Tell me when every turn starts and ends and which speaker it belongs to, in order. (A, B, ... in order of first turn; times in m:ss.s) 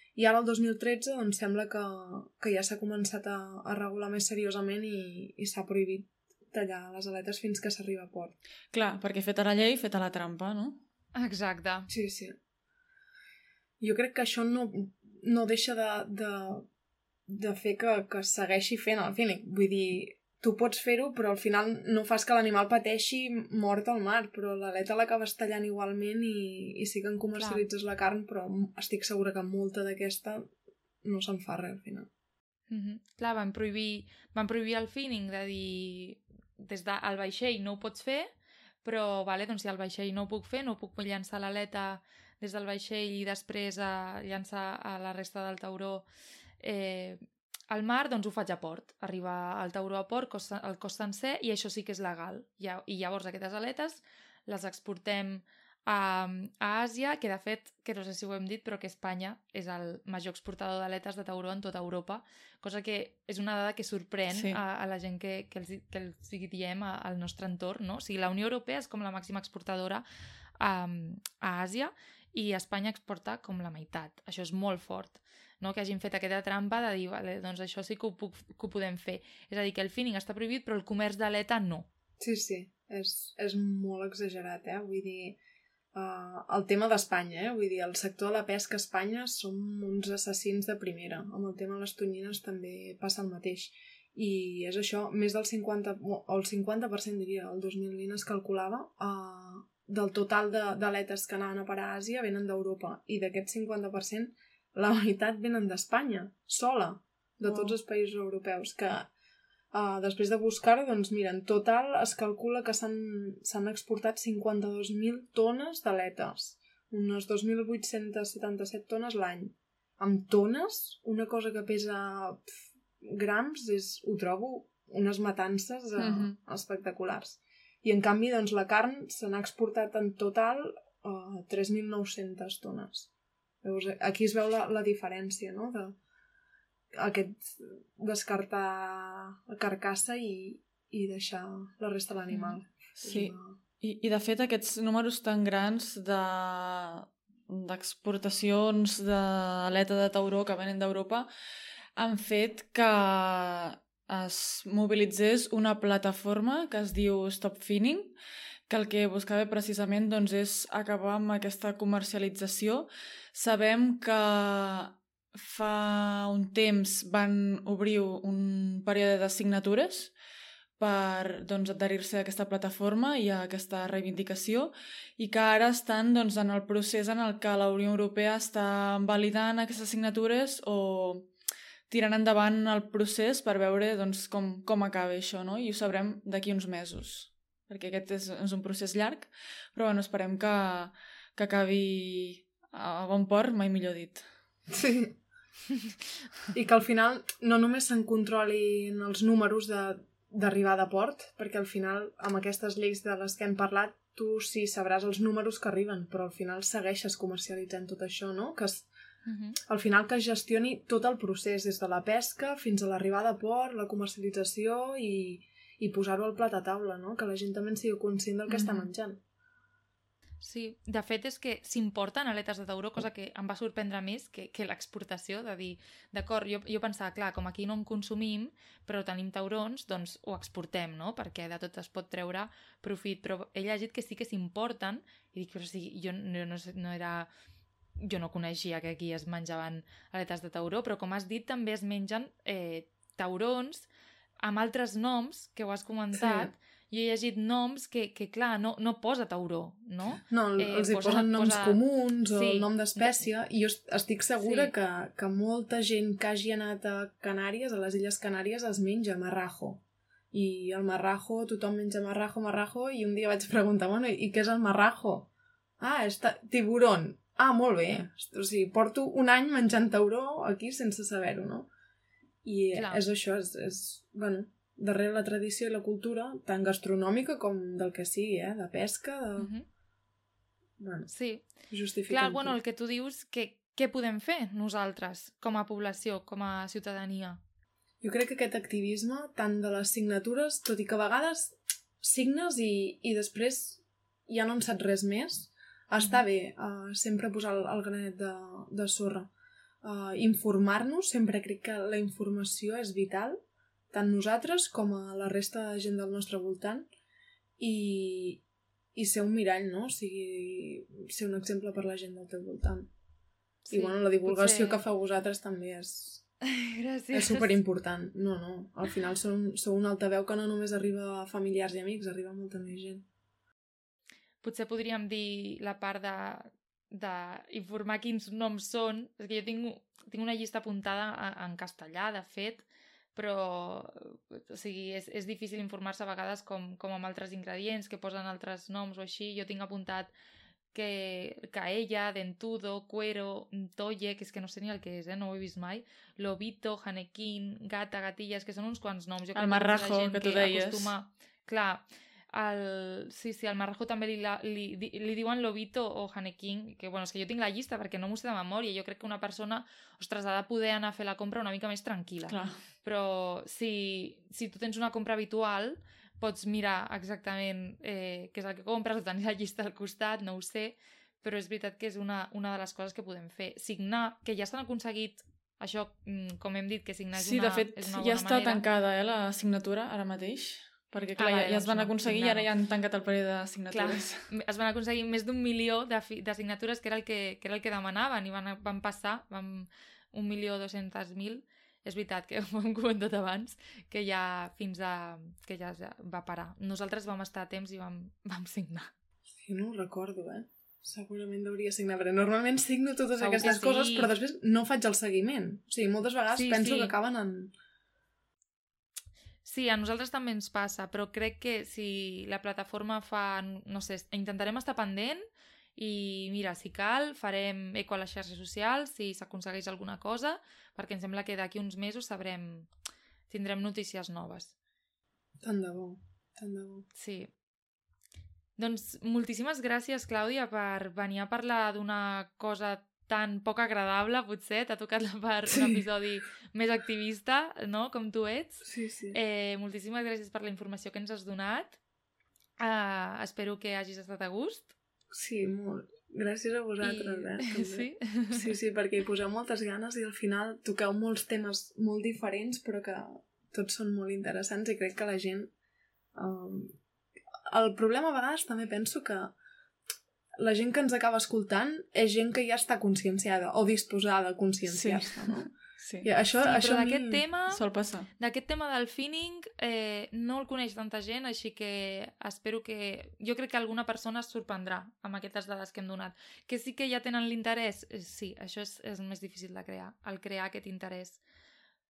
0:00.2-0:08.4 A
0:08.7-0:10.8 B
0:11.2-0:11.9 C
0:11.9-0:12.4 A
0:13.8-0:16.7 A
0:17.3-0:30.5 A
0:27.4-0:27.7 C
0:31.0-0:32.1 A
0:32.7-0:38.3 C
0:38.8-0:46.1 C
0:46.6-1:10.0 C
1:04.3-1:04.6 B
1:10.6-1:21.9 C
1:22.2-1:25.4 A
1:25.9-1:49.1 A
1:47.4-1:47.8 C
1:49.7-2:13.1 A
2:06.0-2:06.4 B
2:13.6-2:16.0 A
2:16.9-2:23.6 A
2:22.3-2:22.6 C
2:23.0-2:31.3 B
2:32.0-2:38.2 B
2:38.7-2:50.1 B
2:50.8-3:01.3 B
3:01.9-3:14.2 B
3:14.7-3:15.2 A
3:16.5-3:28.9 A
3:29.3-3:29.6 C
3:29.7-3:39.2 A
3:38.5-3:38.9 C
3:40.4-3:57.3 C
3:58.0-4:03.9 C
4:04.4-4:13.3 C
4:06.1-4:06.5 A
4:10.3-4:25.3 A
4:14.4-4:14.7 C
4:25.8-4:31.7 A
4:32.4-4:39.5 A
4:32.7-4:33.0 C
4:39.4-4:39.7 C
4:40.8-4:41.1 A
4:41.1-4:41.5 C
4:41.7-4:42.6 A
4:42.1-4:47.4 C
4:48.0-4:59.3 A
4:59.8-5:03.4 A
5:03.9-5:06.9 A
5:07.6-5:08.4 A
5:09.0-5:12.9 A
5:13.7-5:14.8 C
5:13.7-5:16.2 A
5:16.5-5:17.6 C
5:17.1-5:23.1 A
5:24.4-5:40.1 C
5:40.7-6:18.6 C
5:49.4-5:50.9 B
6:02.3-6:02.6 B
6:17.1-6:24.3 B
6:21.2-6:22.5 C
6:23.7-6:38.9 C
6:39.4-6:47.5 A
6:43.2-6:44.1 C
6:46.3-6:46.9 C
6:49.4-6:55.2 C
6:55.8-7:02.7 C
7:03.3-7:04.5 C
7:05.4-7:06.8 A
7:06.9-7:07.3 C
7:08.6-7:21.8 C
7:15.5-7:15.9 A
7:18.6-7:19.2 A
7:22.6-7:24.7 C
7:25.1-7:35.5 A
7:26.8-7:28.6 C
7:36.2-7:36.8 A
7:37.5-7:39.4 A
7:40.4-7:45.5 A
7:44.7-7:46.1 B
7:46.0-7:47.2 A
7:46.4-7:47.6 C
7:47.5-7:48.1 B
7:48.2-8:01.2 C